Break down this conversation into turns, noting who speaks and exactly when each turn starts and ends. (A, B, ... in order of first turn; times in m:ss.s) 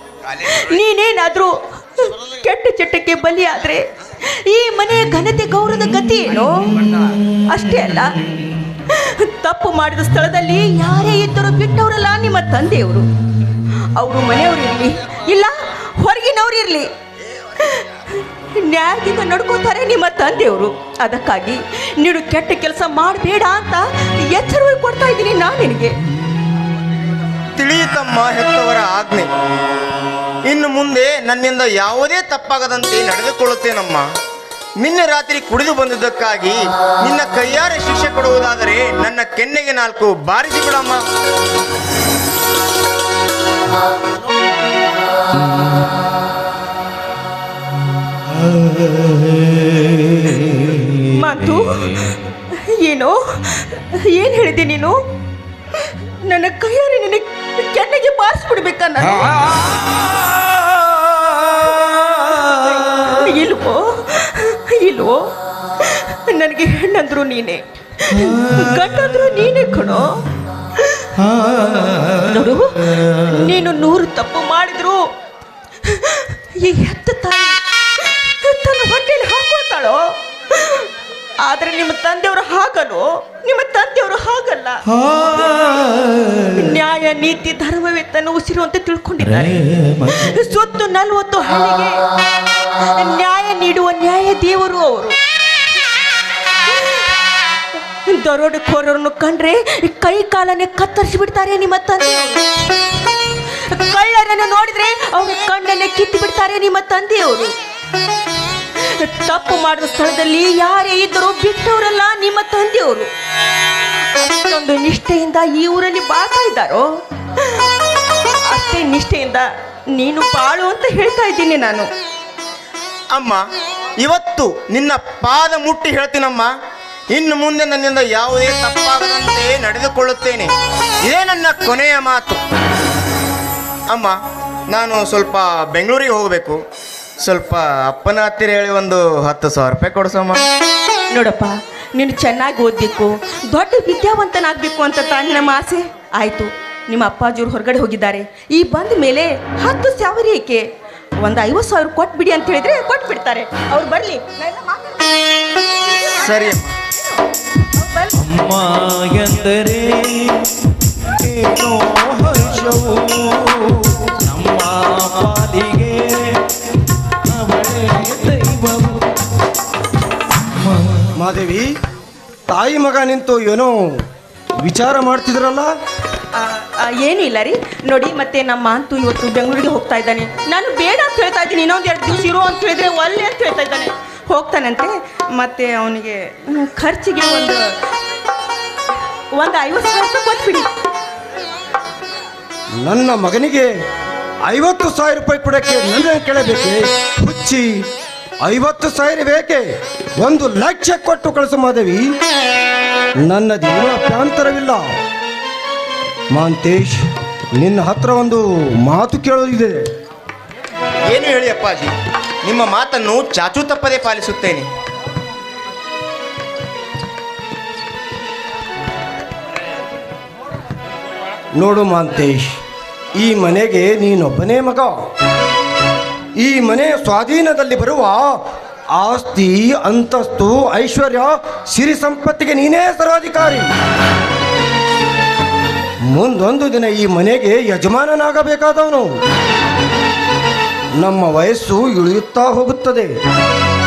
0:00.3-0:08.2 A
0:08.7-0:13.1 A
0:13.7-0:16.9 A
0:17.4-0:26.0 A
0:27.6-0:29.3 B
0:30.5-0:34.1 B
0:34.8-0:41.0 B
0:48.5-0:51.1 C
0:51.0-0:55.0 A
0:56.1-0:59.9 A
1:00.2-1:01.6 C
1:01.4-1:10.2 A
1:08.3-1:08.6 C
1:10.8-1:11.1 A
1:11.3-1:12.3 C
1:12.1-1:15.1 A
1:15.8-1:20.9 A
1:21.4-1:24.9 A
1:24.9-1:26.6 C
1:26.5-1:32.0 A
1:29.3-1:30.2 C
1:32.8-1:35.2 A
1:36.7-1:37.0 A
1:38.0-1:42.4 A
1:43.5-1:47.5 A
1:48.8-1:53.1 A
1:54.1-1:56.9 A
1:57.4-1:57.6 A
1:58.5-2:01.9 A
2:03.1-2:03.4 B
2:04.0-2:06.5 B
2:07.1-2:10.5 B
2:11.0-2:12.4 B
2:13.9-2:14.2 B
2:14.7-2:16.6 B
2:17.2-2:20.4 B
2:21.1-2:30.6 A
2:31.2-2:35.1 A
2:35.7-2:36.4 A
2:36.2-2:36.7 B
2:37.7-2:38.2 A
2:38.2-2:40.5 C
2:41.0-2:46.5 C
2:47.2-2:49.2 C
2:50.5-2:51.1 C
2:51.1-2:51.7 D
2:52.5-2:53.8 D
2:54.6-2:55.7 D
2:56.3-3:07.7 A
3:09.4-3:10.7 A
3:12.8-3:13.7 D
3:14.5-3:17.8 D
3:18.4-3:19.6 D
3:20.2-3:22.1 D
3:23.2-3:24.8 D
3:26.3-3:27.1 D
3:27.6-3:29.8 D
3:31.1-3:31.9 B
3:32.4-3:34.7 B
3:41.6-3:42.6 D
3:43.2-3:44.9 D
3:46.4-3:48.4 D
3:49.0-3:53.7 D
3:56.1-3:59.2 D
4:01.0-4:03.1 D